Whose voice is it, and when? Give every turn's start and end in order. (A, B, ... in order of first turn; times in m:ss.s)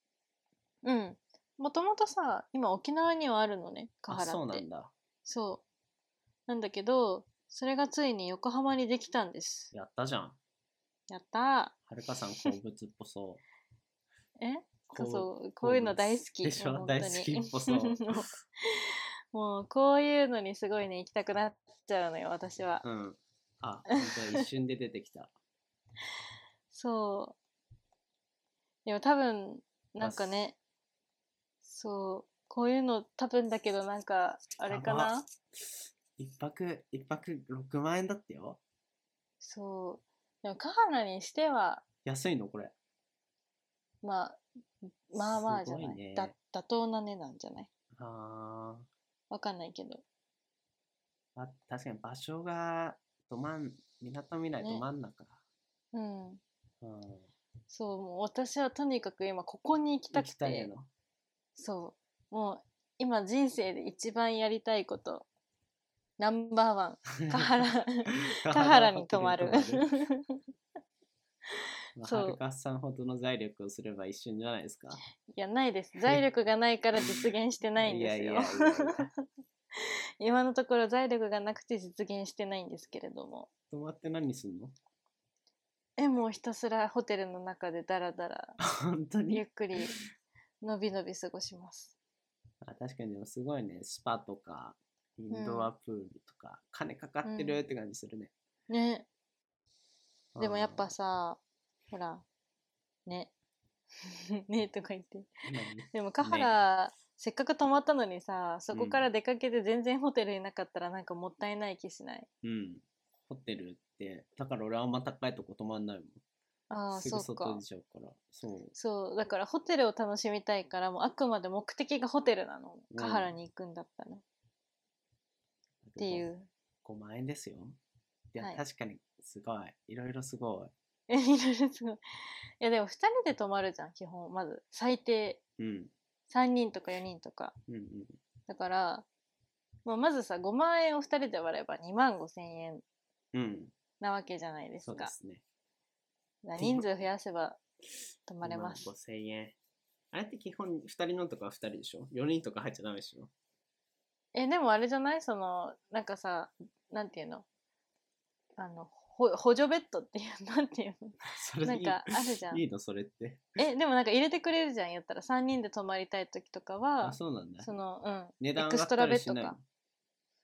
0:00.8-0:04.7 A
0:04.1-0:04.9 B
0:05.2-0:05.6 A
0:06.5-0:09.7 A
0:09.7-0:10.4 B
0:11.1-0:11.8 A
0:11.9-0:13.4 B
0:14.4-0:22.8 A
0:14.9-0:18.2 B
0:22.8-0:25.3 B
0:24.0-0:24.4 A
0:26.7-0:27.4 A
0:28.8-0:30.6 A
0:30.0-0:30.4 B
0:31.6-0:35.2 A
0:34.7-0:35.2 B
0:36.2-0:38.6 B
0:39.4-0:41.8 A
0:42.0-0:42.7 B
0:44.0-0:47.7 A
0:45.2-0:46.3 B
0:48.0-0:48.9 B
0:49.3-0:50.0 A
0:51.4-0:55.4 B
0:55.9-0:56.4 A
0:56.8-0:57.3 B
0:57.7-1:00.7 A
1:00.1-1:00.9 B
1:01.6-1:05.3 A
1:06.2-1:10.4 A
1:07.2-1:07.5 B
1:08.2-1:09.9 B
1:12.0-1:15.0 B
1:12.0-1:12.4 A
1:15.3-1:19.2 A
1:17.8-1:19.1 B
1:19.8-1:23.5 A
1:23.7-1:24.8 B
1:26.0-1:28.6 A
1:28.6-1:30.0 B
1:29.3-1:30.0 A
1:30.6-1:31.9 A
1:32.6-1:38.3 B
1:35.3-1:35.7 A
1:37.2-1:37.6 A
1:38.7-1:39.1 A
1:40.4-1:40.9 B
1:40.4-1:42.2 A
1:43.1-1:43.3 A
1:44.0-1:45.3 A
1:45.5-1:46.5 B
1:45.9-1:52.3 A
1:48.7-1:49.0 B
1:52.4-1:56.2 B
1:56.7-1:57.6 A
1:56.9-1:58.7 B
1:58.8-2:04.2 A
2:02.9-2:03.4 B
2:05.8-2:06.3 B
2:06.0-2:06.5 A
2:06.8-2:07.8 B
2:08.3-2:10.7 B
2:11.1-2:12.0 A
2:12.6-2:15.4 A
2:15.6-2:15.9 B
2:16.3-2:17.6 A
2:17.7-2:18.2 B
2:18.5-2:19.1 A
2:19.8-2:22.8 A
2:23.3-2:23.7 B
2:24.0-2:25.1 A
2:24.8-2:25.4 B
2:26.4-2:27.6 A
2:26.6-2:26.9 B
2:28.3-2:28.9 A
2:28.4-2:29.6 B
2:30.1-2:33.3 B
2:34.3-2:37.4 A
2:38.6-2:42.6 A
2:41.3-2:43.5 B
2:43.6-2:49.6 A
2:47.0-2:47.7 B
2:48.4-2:49.6 B